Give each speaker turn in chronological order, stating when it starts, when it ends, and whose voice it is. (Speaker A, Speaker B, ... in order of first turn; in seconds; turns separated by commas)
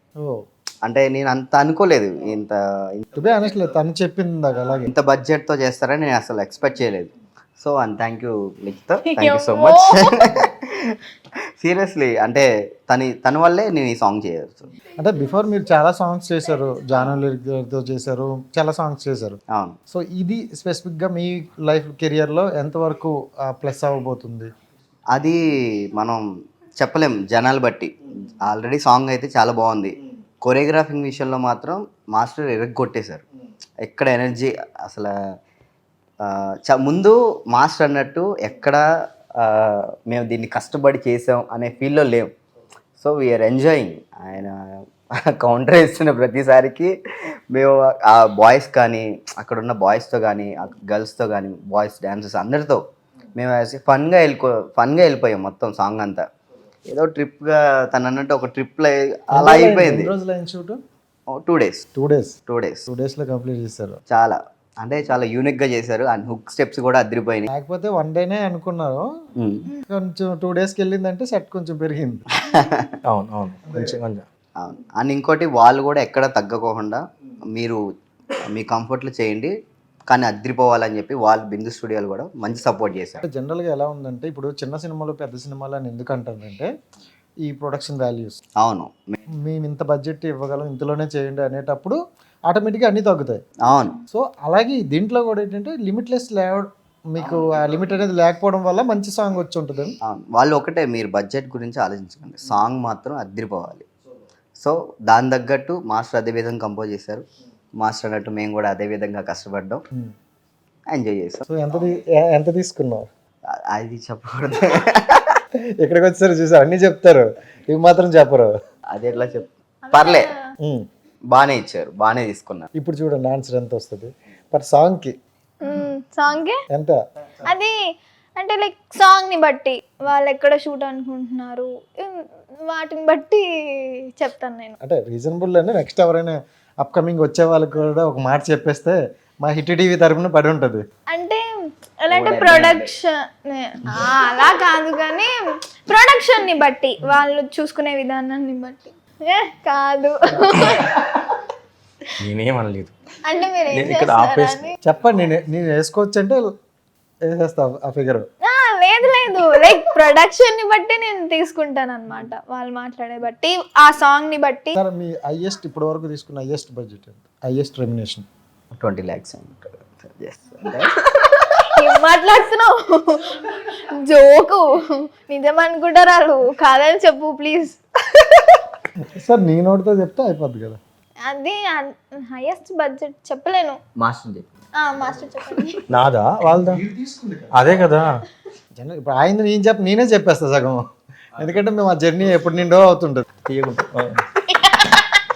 Speaker A: 0.8-3.1, Speaker B: 3.1-4.9, Speaker A: 4.8-10.5, Speaker C: 9.1-10.2, Speaker A: 11.6-14.7, Speaker B: 15.0-24.5, Speaker A: 25.1-25.4, Speaker A: 25.9-26.2, Speaker A: 26.8-33.2, Speaker A: 33.8-35.1, Speaker A: 36.2-38.8, Speaker A: 39.4-42.3, Speaker A: 43.0-44.5, Speaker A: 45.3-46.9, Speaker A: 47.5-52.8, Speaker A: 53.4-56.2, Speaker A: 56.9-60.1, Speaker B: 59.3-60.8, Speaker A: 61.3-61.8, Speaker B: 61.9-64.0, Speaker A: 62.5-62.8, Speaker A: 64.1-67.5, Speaker B: 67.5-69.0, Speaker B: 69.8-72.2, Speaker A: 72.5-72.9, Speaker D: 73.0-74.2, Speaker B: 73.7-73.9, Speaker A: 74.6-77.0, Speaker A: 77.5-77.8, Speaker A: 78.5-79.5, Speaker A: 80.1-83.2, Speaker B: 83.2-86.7, Speaker B: 87.4-88.4, Speaker A: 88.6-89.2, Speaker B: 89.4-93.4, Speaker A: 93.7-94.0, Speaker B: 94.1-100.0, Speaker A: 97.2-97.6, Speaker A: 100.0-103.8, Speaker A: 104.6-107.2, Speaker A: 107.8-109.8, Speaker A: 110.9-111.4, Speaker B: 111.5-113.1, Speaker A: 113.7-115.4, Speaker B: 115.8-118.5, Speaker A: 118.9-120.3, Speaker C: 119.8-120.3, Speaker A: 121.3-122.7, Speaker B: 122.7-125.1, Speaker C: 125.6-126.6, Speaker B: 126.7-127.0, Speaker C: 127.5-127.7, Speaker C: 128.3-134.7, Speaker B: 134.8-140.8, Speaker C: 141.1-141.4, Speaker C: 142.0-145.3, Speaker A: 142.1-142.9, Speaker C: 145.9-151.0, Speaker D: 152.2-152.9, Speaker C: 153.2-154.7, Speaker D: 153.7-154.6, Speaker B: 154.8-156.5, Speaker B: 157.2-158.2, Speaker C: 158.4-164.8, Speaker B: 164.8-168.2, Speaker A: 168.8-171.3, Speaker C: 171.8-174.6, Speaker C: 175.3-177.8, Speaker B: 179.2-180.8, Speaker C: 181.2-183.8, Speaker A: 184.0-184.4, Speaker C: 184.8-185.8, Speaker D: 185.9-186.8, Speaker B: 186.4-187.6, Speaker D: 187.5-188.2, Speaker B: 188.8-190.8, Speaker B: 191.4-193.2, Speaker D: 193.5-194.2, Speaker C: 194.6-195.2